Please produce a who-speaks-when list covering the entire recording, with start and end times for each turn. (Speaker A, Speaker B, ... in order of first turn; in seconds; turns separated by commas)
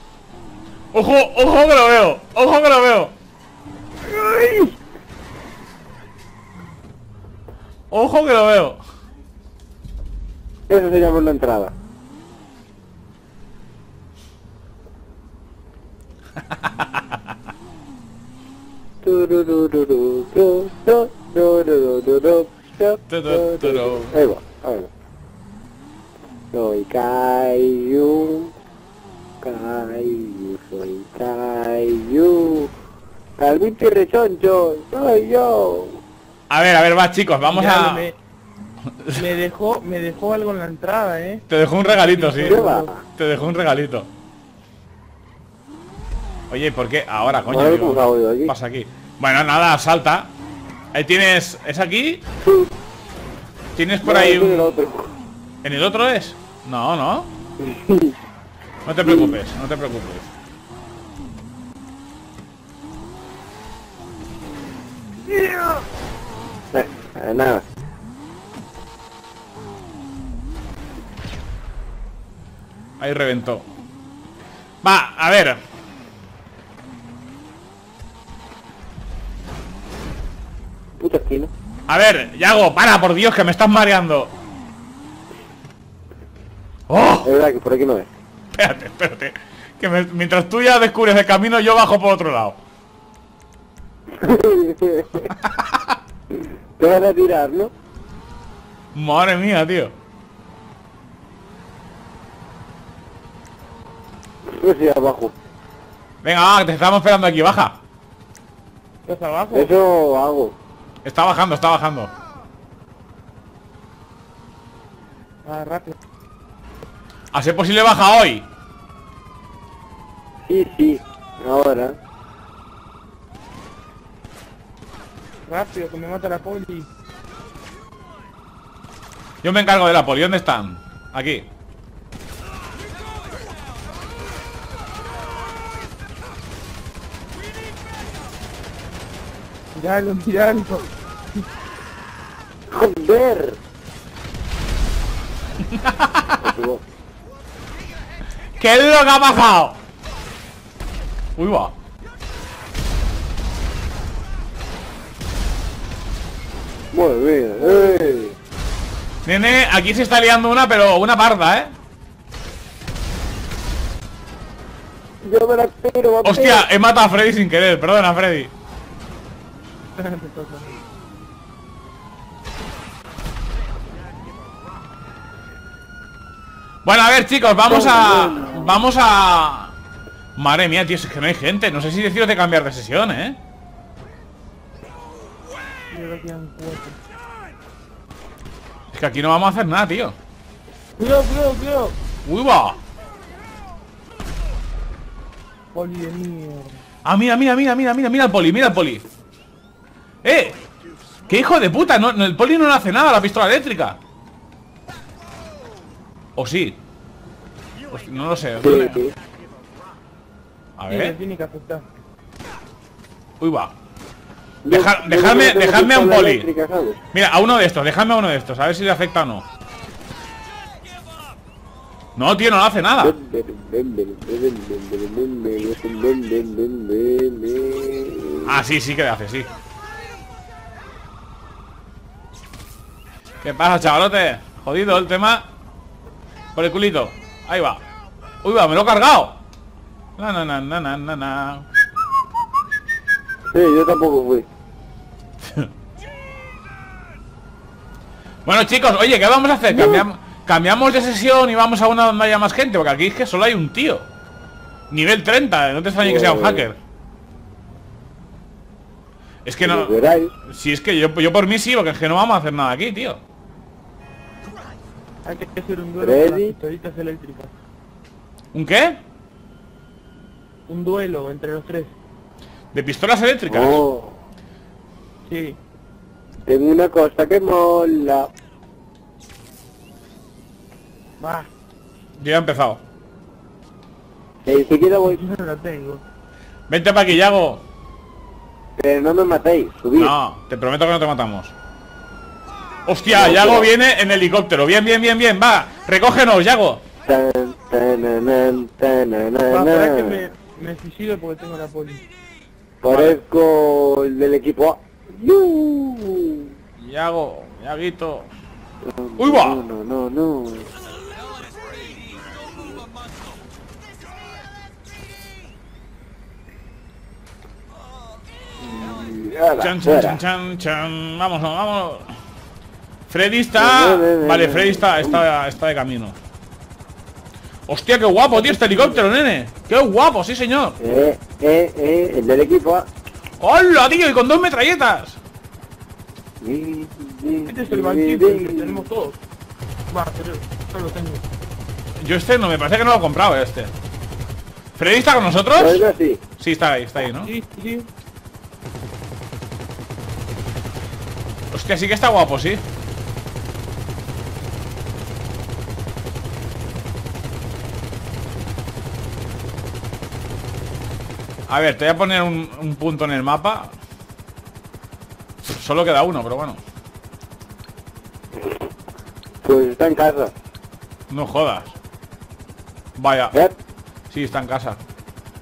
Speaker A: 0.9-3.1, Speaker B: 4.0-4.7, Speaker A: 7.9-8.8, Speaker B: 10.7-11.7, Speaker A: 16.4-17.2, Speaker B: 19.0-24.9, Speaker A: 23.1-24.1, Speaker B: 26.5-28.5, Speaker B: 29.4-32.7, Speaker B: 33.4-36.0, Speaker A: 36.5-38.0, Speaker C: 37.5-38.2, Speaker C: 39.1-42.9, Speaker A: 41.5-44.1, Speaker B: 42.4-43.0, Speaker A: 46.5-50.3, Speaker B: 47.5-48.5, Speaker A: 50.9-52.2, Speaker A: 53.8-54.8, Speaker B: 54.0-55.1, Speaker A: 55.6-57.3, Speaker B: 57.6-58.1, Speaker A: 58.8-60.3, Speaker B: 59.0-59.4, Speaker B: 66.7-67.6, Speaker A: 73.0-73.7, Speaker A: 74.8-75.6, Speaker B: 81.0-81.5, Speaker A: 81.9-84.3, Speaker A: 86.9-87.3, Speaker B: 87.2-88.1, Speaker A: 88.5-92.6, Speaker B: 94.2-95.3, Speaker A: 95.4-96.0, Speaker B: 96.8-97.7, Speaker A: 98.9-99.9, Speaker B: 104.5-105.3, Speaker A: 106.2-107.8, Speaker C: 109.0-109.7, Speaker B: 109.5-110.5, Speaker A: 111.0-112.1, Speaker C: 115.4-116.0, Speaker A: 117.3-118.5, Speaker B: 120.5-121.9, Speaker C: 125.5-126.9, Speaker A: 129.4-131.5, Speaker C: 139.7-140.9, Speaker B: 142.7-143.6, Speaker A: 145.6-146.4, Speaker B: 146.4-146.8, Speaker A: 148.6-149.8, Speaker A: 151.3-151.7, Speaker B: 156.9-158.3, Speaker A: 159.2-161.7, Speaker B: 165.2-166.6, Speaker A: 166.2-168.5, Speaker C: 170.0-170.7, Speaker A: 176.8-179.7, Speaker B: 177.7-178.8, Speaker A: 180.3-183.4, Speaker C: 185.9-187.0, Speaker A: 188.9-190.2, Speaker C: 191.0-191.9, Speaker A: 192.2-192.8, Speaker C: 195.7-196.8, Speaker A: 197.0-199.0, Speaker A: 200.2-200.6, Speaker A: 201.3-204.0, Speaker A: 206.3-206.8, Speaker A: 207.9-209.0, Speaker B: 208.6-209.1, Speaker A: 210.8-211.1, Speaker C: 210.9-211.8, Speaker A: 213.4-213.7, Speaker B: 214.6-217.0, Speaker A: 214.7-216.5, Speaker A: 217.1-219.4, Speaker A: 222.2-223.1, Speaker B: 223.0-228.6, Speaker A: 228.4-229.5, Speaker A: 233.4-235.5, Speaker A: 236.5-237.8, Speaker A: 238.4-239.4, Speaker A: 240.2-241.7, Speaker B: 243.5-244.5, Speaker A: 248.4-254.1, Speaker A: 254.9-256.8, Speaker B: 256.0-256.7, Speaker A: 259.4-263.2, Speaker B: 259.6-260.3, Speaker C: 265.2-267.5, Speaker B: 266.0-266.5, Speaker A: 268.5-269.0, Speaker C: 270.7-271.9, Speaker A: 272.7-273.8, Speaker B: 273.5-274.1, Speaker C: 275.2-275.6, Speaker B: 276.5-278.3, Speaker C: 281.2-281.5, Speaker A: 282.2-282.8, Speaker B: 284.4-285.2, Speaker C: 285.0-286.0, Speaker A: 286.7-287.6, Speaker B: 288.8-290.1, Speaker A: 290.0-291.5, Speaker A: 292.9-296.8, Speaker B: 293.1-293.7, Speaker B: 297.1-300.3, Speaker C: 299.5-302.0, Speaker B: 302.8-306.5, Speaker A: 302.9-303.2, Speaker A: 306.8-308.3, Speaker B: 308.8-310.7, Speaker A: 309.2-309.6, Speaker B: 312.4-312.6, Speaker B: 318.6-320.2, Speaker A: 319.6-322.1, Speaker A: 323.1-326.2, Speaker B: 323.6-325.2, Speaker A: 327.7-330.8, Speaker C: 328.3-329.0, Speaker B: 330.8-332.9, Speaker A: 333.4-335.2, Speaker B: 336.4-338.8, Speaker C: 337.5-339.2, Speaker C: 339.9-341.2, Speaker A: 342.0-343.7, Speaker A: 344.8-345.8, Speaker B: 345.5-346.2, Speaker A: 346.4-347.3, Speaker C: 347.2-347.9, Speaker A: 351.5-352.6, Speaker A: 361.5-363.7, Speaker A: 365.4-366.6, Speaker B: 369.4-370.3, Speaker A: 371.1-371.7, Speaker A: 372.9-373.4, Speaker A: 374.1-374.8